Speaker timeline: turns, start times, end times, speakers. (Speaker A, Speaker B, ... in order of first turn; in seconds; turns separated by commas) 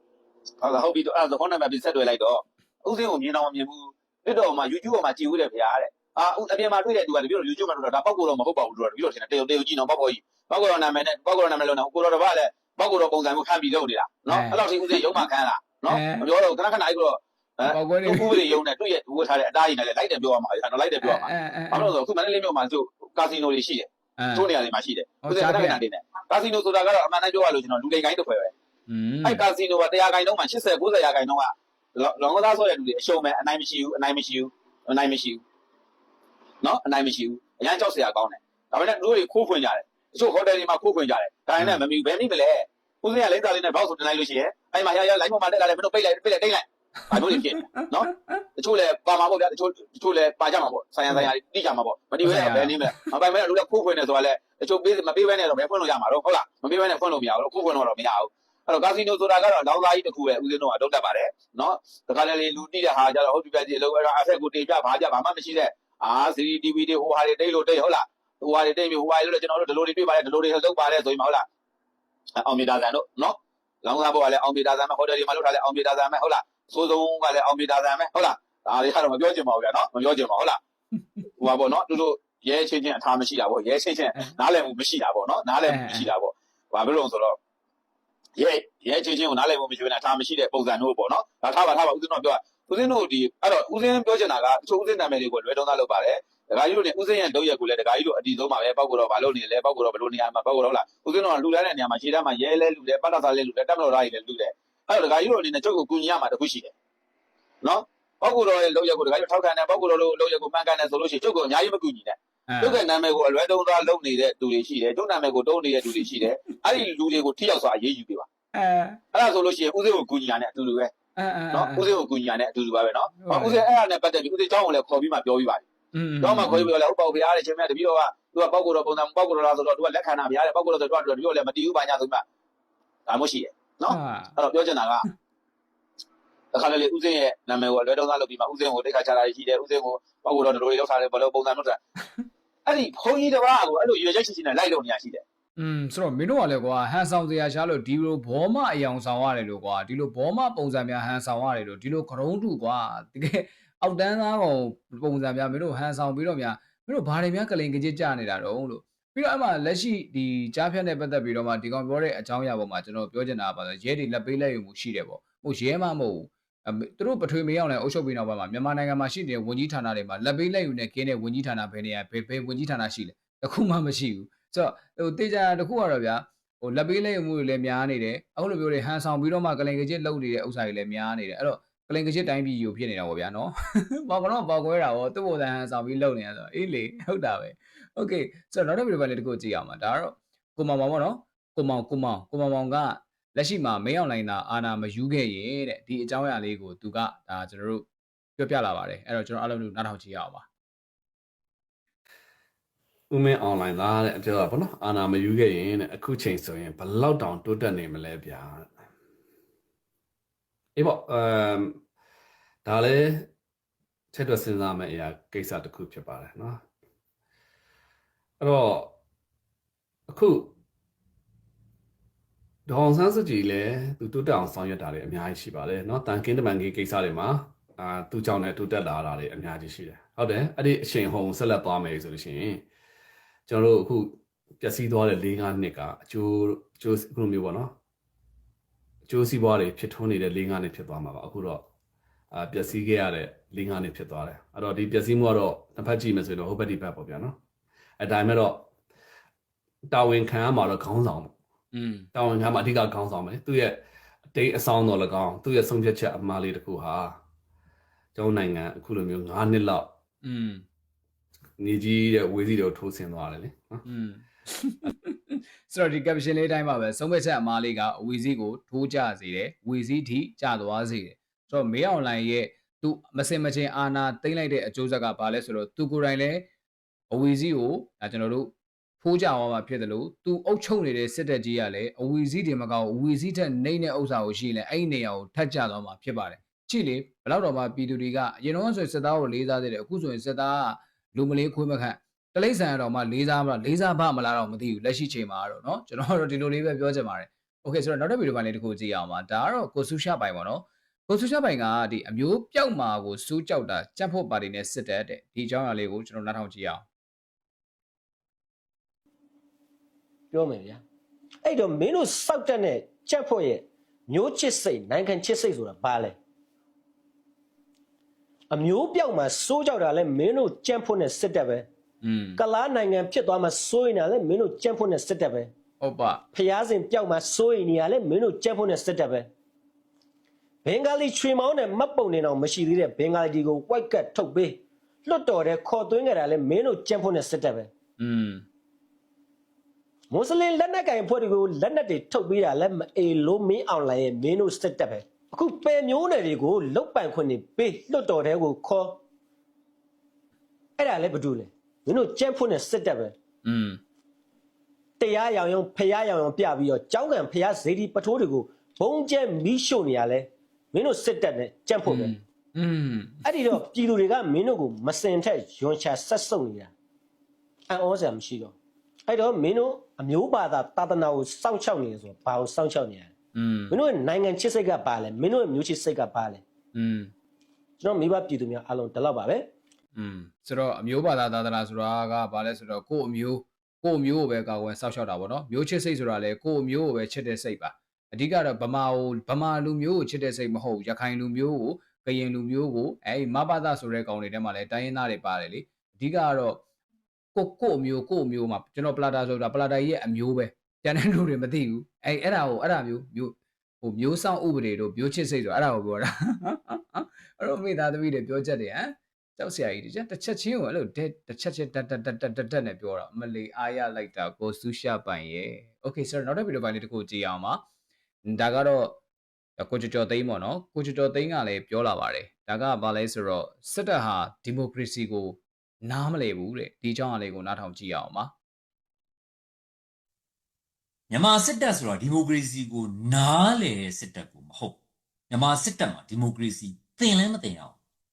Speaker A: 0.6-28.5, Speaker B: 14.3-15.2, Speaker B: 15.8-16.3, Speaker B: 17.6-18.6, Speaker B: 21.0-21.9, Speaker B: 24.2-24.5, Speaker B: 25.2-25.8, Speaker B: 28.9-29.4, Speaker A: 29.2-35.4, Speaker A: 36.6-71.4, Speaker B: 47.2-48.4, Speaker B: 52.2-53.1, Speaker A: 72.4-80.6, Speaker A: 81.4-87.3, Speaker B: 85.7-86.1, Speaker A: 88.4-106.7, Speaker A: 107.6-118.3, Speaker B: 112.5-112.8, Speaker B: 115.9-116.8, Speaker B: 118.5-119.0, Speaker A: 119.1-120.9, Speaker B: 121.2-121.9, Speaker A: 121.5-125.6, Speaker B: 123.2-123.7, Speaker B: 125.9-126.7, Speaker A: 126.2-132.2, Speaker A: 133.1-135.1, Speaker B: 133.9-134.4, Speaker A: 136.5-141.8, Speaker A: 142.7-145.2, Speaker B: 145.6-197.8, Speaker B: 198.4-200.4, Speaker C: 203.1-208.7, Speaker C: 210.8-211.8, Speaker C: 212.7-213.3, Speaker C: 214.1-216.6, Speaker C: 218.4-218.9, Speaker C: 220.1-220.5, Speaker C: 222.7-232.6, Speaker C: 233.5-237.7, Speaker C: 239.1-241.7, Speaker C: 242.3-247.4, Speaker C: 248.0-248.7, Speaker C: 249.9-251.3, Speaker B: 251.7-252.1, Speaker C: 252.1-257.2, Speaker C: 258.2-259.9, Speaker B: 260.2-260.6, Speaker C: 261.6-263.8, Speaker B: 263.9-276.5, Speaker B: 277.1-278.5, Speaker B: 279.0-306.8, Speaker D: 310.3-310.8, Speaker D: 311.4-316.2, Speaker D: 318.5-321.7, Speaker B: 322.0-322.4, Speaker D: 322.4-325.5, Speaker B: 325.8-326.2, Speaker D: 326.3-329.3, Speaker D: 330.6-337.7, Speaker B: 338.0-338.4, Speaker D: 340.1-349.0, Speaker D: 350.8-353.1, Speaker B: 353.4-353.8, Speaker D: 355.0-362.1, Speaker B: 361.9-363.2, Speaker D: 363.2-366.7, Speaker D: 367.7-368.5, Speaker D: 369.1-373.1, Speaker B: 373.3-373.8, Speaker D: 373.7-376.4, Speaker B: 376.7-377.1, Speaker D: 377.8-379.5, Speaker B: 379.9-396.6, Speaker B: 397.3-417.6, Speaker B: 418.3-419.0, Speaker B: 419.6-428.3, Speaker E: 431.1-434.8, Speaker E: 435.3-437.8